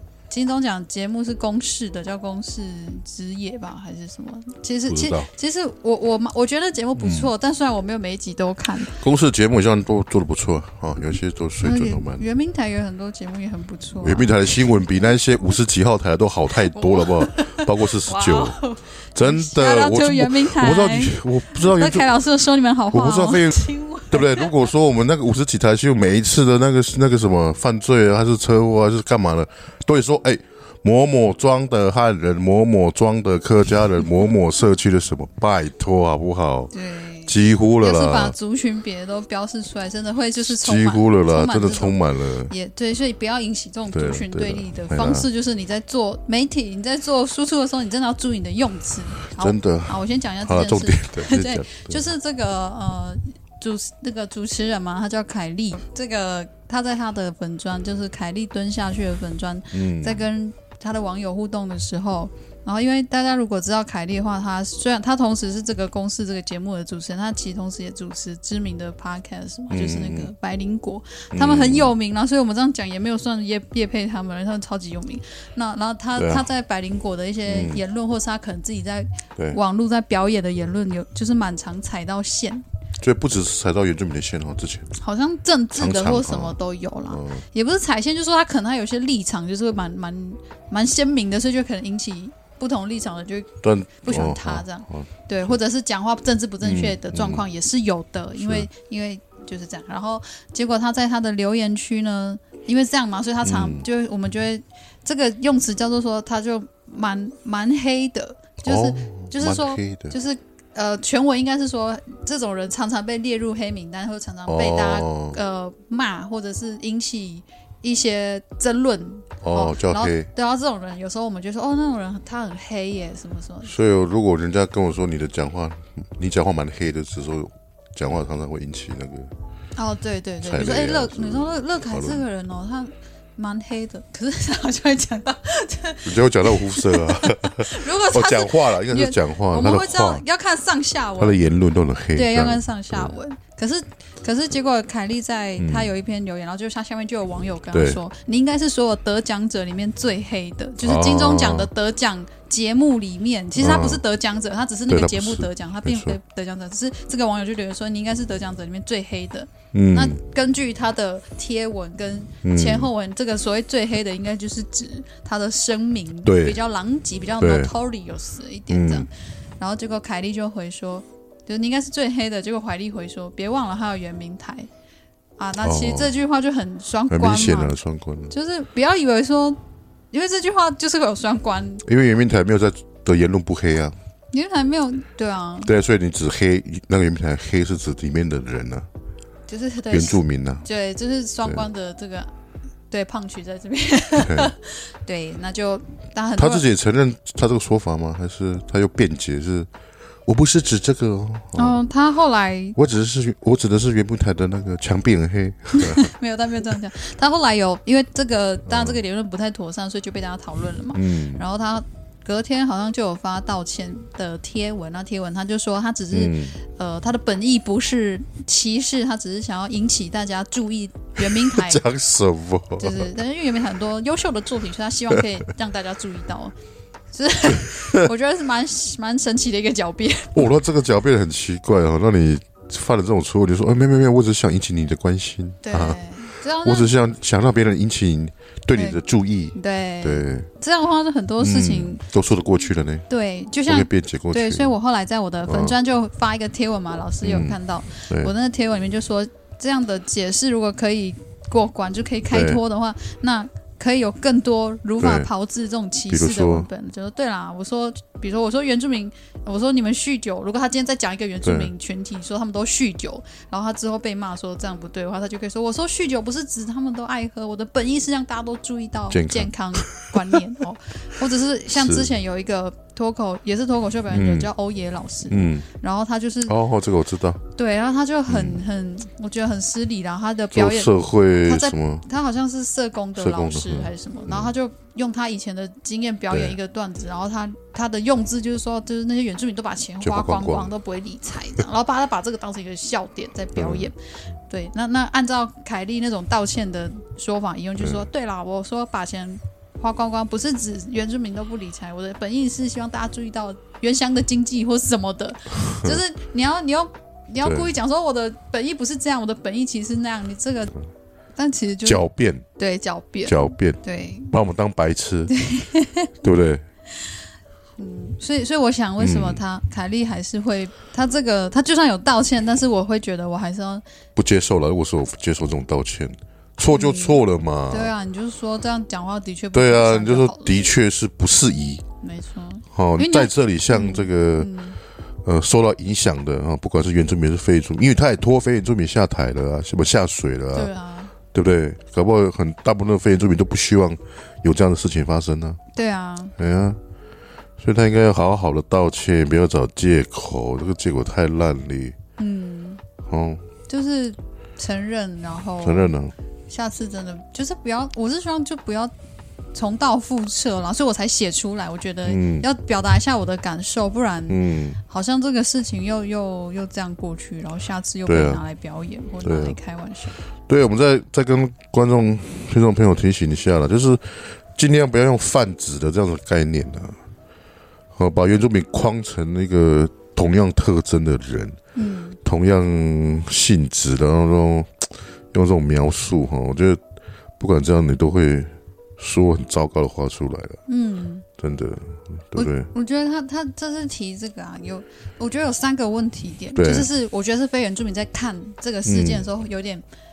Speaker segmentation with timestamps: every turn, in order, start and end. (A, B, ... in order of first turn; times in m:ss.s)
0:00.3-0:09.0 A
0:04.9-0:05.3 B
0:07.0-0:07.3 B
0:09.0-0:12.2 B
0:11.6-0:14.3 A
0:14.0-0:18.6 B
0:16.7-0:24.7 A
0:19.1-0:22.1 B
0:22.9-0:36.7 B
0:36.7-1:22.6 A
0:37.2-0:38.4 B
0:40.5-0:42.5 B
0:43.9-0:45.3 B
0:49.4-0:52.0 B
0:59.7-1:00.2 B
1:09.7-1:10.3 B
1:11.3-1:11.9 B
1:16.2-1:16.4 B
1:17.5-1:17.8 B
1:23.0-1:24.9 B
1:25.0-1:33.5 A
1:25.8-1:26.6 B
1:27.1-1:27.4 B
1:33.6-1:35.1 B
1:34.0-2:03.8 A
1:36.6-1:37.4 B
1:38.4-1:38.7 B
1:43.4-1:43.8 B
1:48.6-1:50.1 B
1:54.5-1:55.4 B
1:59.4-2:00.3 B
2:03.6-2:09.3 B
2:09.8-2:21.4 A
2:10.4-2:12.2 B
2:16.0-2:20.2 B
2:21.2-2:23.1 B
2:22.1-2:54.7 A
2:25.6-2:25.9 B
2:27.7-2:28.0 B
2:30.8-2:31.7 B
2:33.6-2:34.0 B
2:34.9-2:36.2 B
2:39.7-2:40.2 B
2:42.4-2:42.9 B
2:46.2-2:46.6 B
2:47.4-2:47.7 B
2:48.7-2:49.1 B
2:55.4-2:57.7 A
2:55.6-2:56.1 B
2:57.1-2:58.3 B
2:58.3-2:59.6 A
3:00.1-3:01.8 A
3:01.8-3:04.0 B
3:04.3-3:05.7 A
3:05.6-3:08.9 B
3:09.5-3:12.3 A
3:09.9-3:10.6 B
3:12.9-3:16.6 A
3:14.2-3:14.5 B
3:16.4-3:19.7 B
3:20.3-3:21.8 B
3:21.5-3:22.8 A
3:22.8-3:26.1 B
3:25.8-3:41.8 A
3:28.7-3:29.0 B
3:30.9-3:31.4 B
3:36.1-3:36.6 B
3:41.2-3:43.1 B
3:42.8-3:46.6 A
3:47.1-3:50.5 A
3:50.3-3:56.0 B
3:55.6-3:56.9 A
3:56.6-4:00.5 B
3:59.5-4:02.0 A
4:01.4-4:03.1 B
4:03.1-4:36.6 A
4:03.6-4:04.7 B
4:05.4-4:05.8 B
4:07.2-4:08.3 B
4:12.3-4:12.6 B
4:15.0-4:15.3 B
4:16.1-4:16.7 B
4:21.4-4:21.7 B
4:29.1-4:30.3 B
4:31.7-4:32.1 B
4:34.1-4:34.5 B
4:35.3-4:35.7 B
4:36.5-4:37.4 B
4:37.5-4:40.9 A
4:38.3-4:38.6 B
4:40.5-4:42.0 B
4:41.4-5:10.8 A
4:43.2-4:44.5 B
4:46.3-4:46.6 B
4:50.0-4:50.7 B
4:53.6-4:53.9 B
5:07.4-5:07.7 B
5:11.4-5:12.0 A
5:11.8-5:12.4 B
5:12.6-5:14.3 A
5:13.2-5:13.8 B
5:14.3-5:15.3 B
5:15.3-5:16.1 A
5:16.2-5:16.6 B
5:17.8-5:23.8 A
5:19.0-5:19.4 B
5:24.2-5:27.9 B
5:26.6-5:30.8 A
5:29.5-5:31.8 B
5:32.0-5:34.8 A
5:32.7-5:34.5 B
5:35.2-5:40.7 B
5:40.5-5:41.1 A
5:41.3-5:45.6 B
5:45.7-5:46.4 A
5:46.4-5:46.8 B
5:47.6-5:52.0 B
5:52.2-5:52.8 A
5:53.0-5:53.4 B
5:53.7-5:55.9 A
5:55.6-5:56.1 B
5:56.5-5:58.9 A
5:59.5-6:10.2 A
6:02.0-6:02.4 B
6:04.3-6:04.8 B
6:08.1-6:08.4 B
6:09.2-6:09.6 B
6:10.5-6:17.0 B
6:18.0-6:21.6 B
6:21.8-6:22.2 A
6:22.2-6:26.8 B
6:27.4-6:30.6 B
6:30.7-6:31.2 A
6:31.4-6:32.7 B
6:32.4-6:39.8 A
6:36.6-6:36.9 B
6:38.8-6:39.2 B